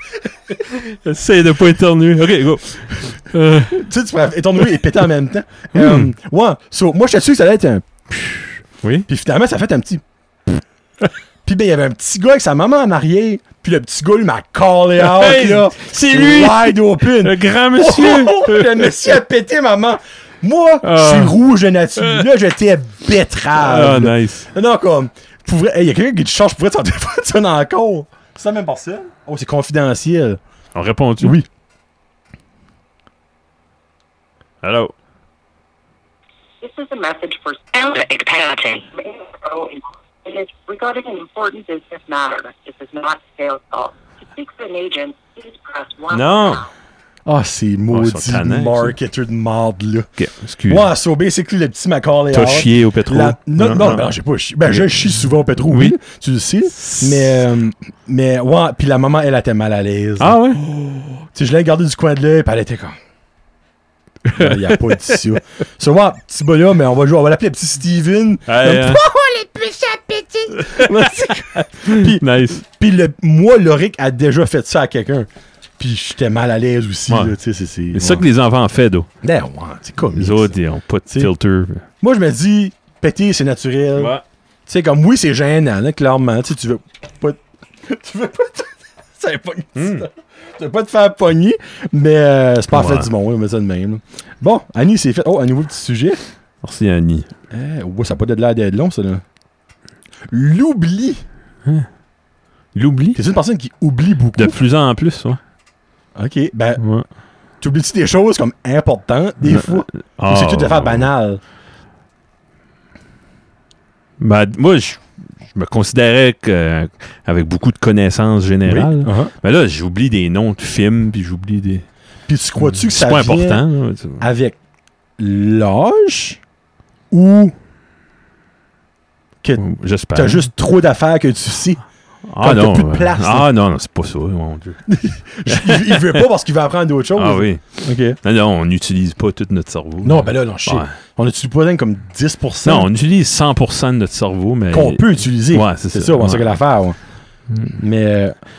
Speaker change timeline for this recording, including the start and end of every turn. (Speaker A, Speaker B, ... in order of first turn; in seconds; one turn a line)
Speaker A: 0.5-3.9
Speaker B: 3.6-8.4
Speaker A: 4.6-4.9
Speaker A: 5.7-6.1
Speaker A: 8.8-9.1
Speaker B: 9.1-10.6
Speaker B: 11.4-30.4
Speaker A: 15.0-19.2
Speaker A: 20.8-21.3
Speaker A: 22.0-22.2
Speaker A: 23.5-24.5
Speaker A: 30.7-31.4
Speaker B: 31.2-31.5
Speaker A: 34.6-34.9
Speaker C: 36.6-46.7
Speaker A: 46.1-46.6
Speaker B: 47.2-50.1
Speaker A: 47.9-49.0
Speaker A: 50.2-50.9
Speaker B: 50.7-62.9
Speaker A: 52.3-54.1
Speaker A: 54.7-56.0
Speaker A: 56.8-57.4
Speaker A: 60.2-60.6
Speaker A: 64.2-65.2
Speaker B: 64.3-75.3
Speaker A: 68.5-69.0
Speaker A: 70.5-72.6
Speaker B: 75.8-78.2
Speaker A: 77.1-77.3
Speaker A: 77.9-79.1
Speaker B: 79.2-80.5
Speaker A: 80.1-81.8
Speaker B: 82.0-84.1
Speaker A: 84.0-84.2
Speaker B: 84.7-96.2
Speaker A: 89.8-90.0
Speaker A: 92.7-93.1
Speaker A: 96.6-97.3
Speaker B: 97.5-99.2
Speaker B: 100.3-101.2
Speaker A: 102.7-103.2
Speaker B: 103.1-104.6
Speaker A: 104.3-105.4
Speaker B: 106.2-106.8
Speaker A: 106.8-107.0
Speaker B: 107.6-111.4
Speaker A: 109.4-111.1
Speaker A: 114.2-121.8
Speaker B: 118.6-119.3
Speaker B: 122.3-123.6
Speaker A: 122.6-124.2
Speaker B: 124.2-124.6
Speaker B: 125.2-126.4
Speaker B: 127.1-127.5
Speaker B: 129.4-131.8
Speaker A: 129.6-130.5
Speaker A: 132.3-134.8
Speaker B: 132.4-133.5
Speaker B: 134.9-138.2
Speaker A: 135.5-136.3
Speaker A: 137.1-140.9
Speaker B: 140.0-142.9
Speaker A: 142.6-146.5
Speaker B: 144.7-147.0
Speaker A: 147.5-147.8
Speaker B: 147.7-148.3